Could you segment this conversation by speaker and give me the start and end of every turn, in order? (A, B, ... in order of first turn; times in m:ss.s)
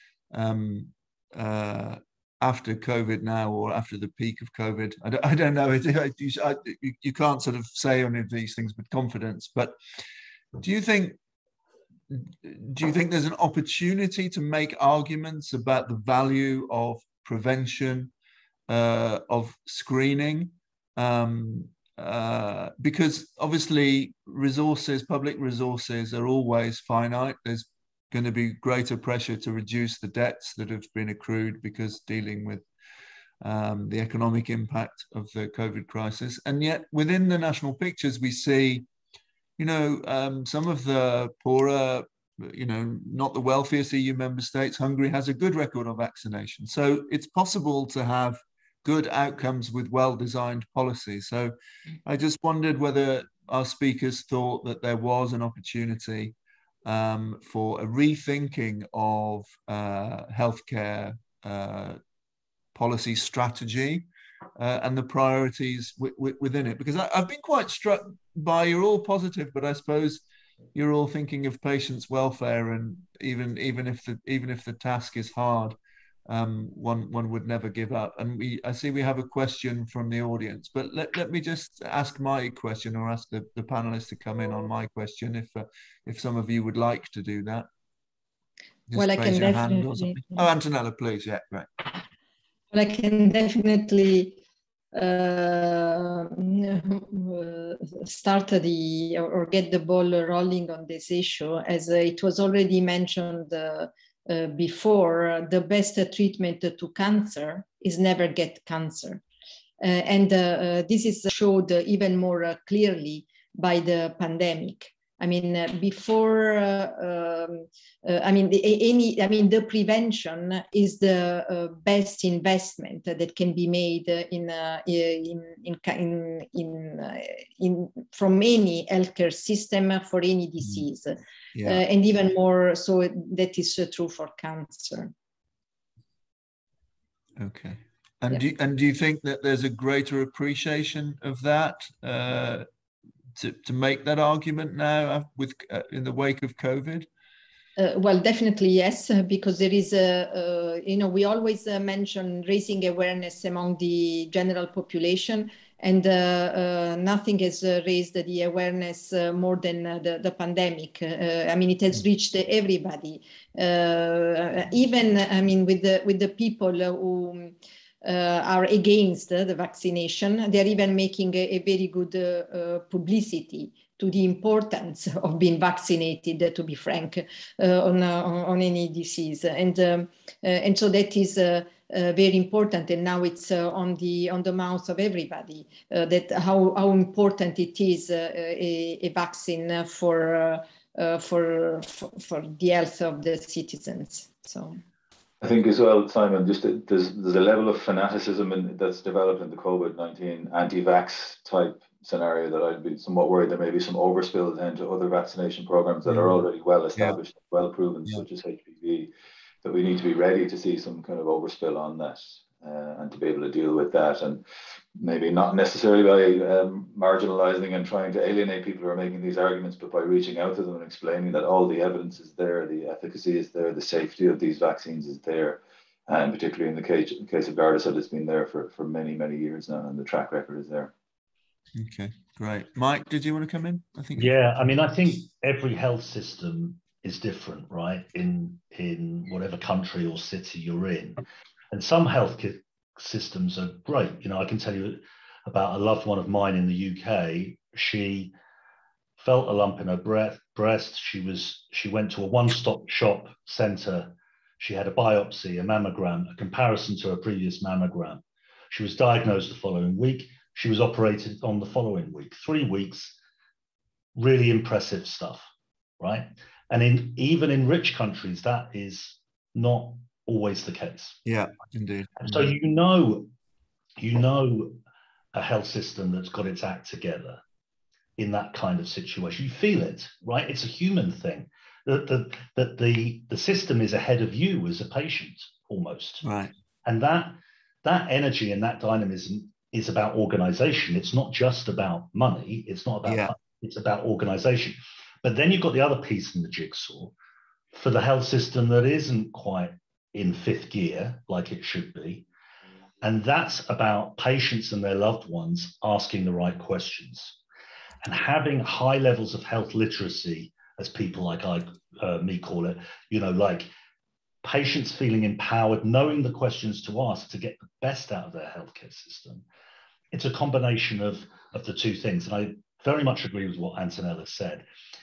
0:00.3-0:09.8 A
0:10.6-0:11.2 A
0:12.1-0:18.1 A
0:18.7-0:32.6 A
0:33.4-0:38.9 A
0:39.6-0:51.5 A
0:52.0-1:02.0 A
1:02.7-1:04.0 A
1:04.6-1:10.2 A
1:10.7-1:15.8 A
1:16.3-1:27.7 A
1:28.9-1:31.7 A
1:28.9-1:30.5 B
1:32.7-1:34.4 B
1:34.9-1:49.2 B
1:49.8-2:15.1 B
2:11.5-2:11.8 A
2:17.4-2:22.7 A
2:23.4-2:27.1 A
2:27.8-3:14.8 B
3:15.4-3:29.1 C
3:26.1-3:26.4 A
3:29.6-3:34.4 C
3:35.0-3:50.9 C
3:51.8-3:54.3 A
3:54.1-4:08.3 D
4:09.2-4:23.2 D
4:24.2-4:25.5 D
4:26.0-4:31.2 D
4:31.2-4:32.5 A
4:32.2-4:33.3 D
4:34.0-4:34.8 D
4:35.3-4:37.4 D
4:38.2-4:46.2 D
4:46.2-4:46.5 A
4:46.8-4:57.1 D
4:53.0-4:53.3 A
4:57.7-5:02.3 D
5:03.0-5:07.4 D
5:08.0-5:13.7 D
5:14.4-5:19.4 D
5:20.1-5:24.7 D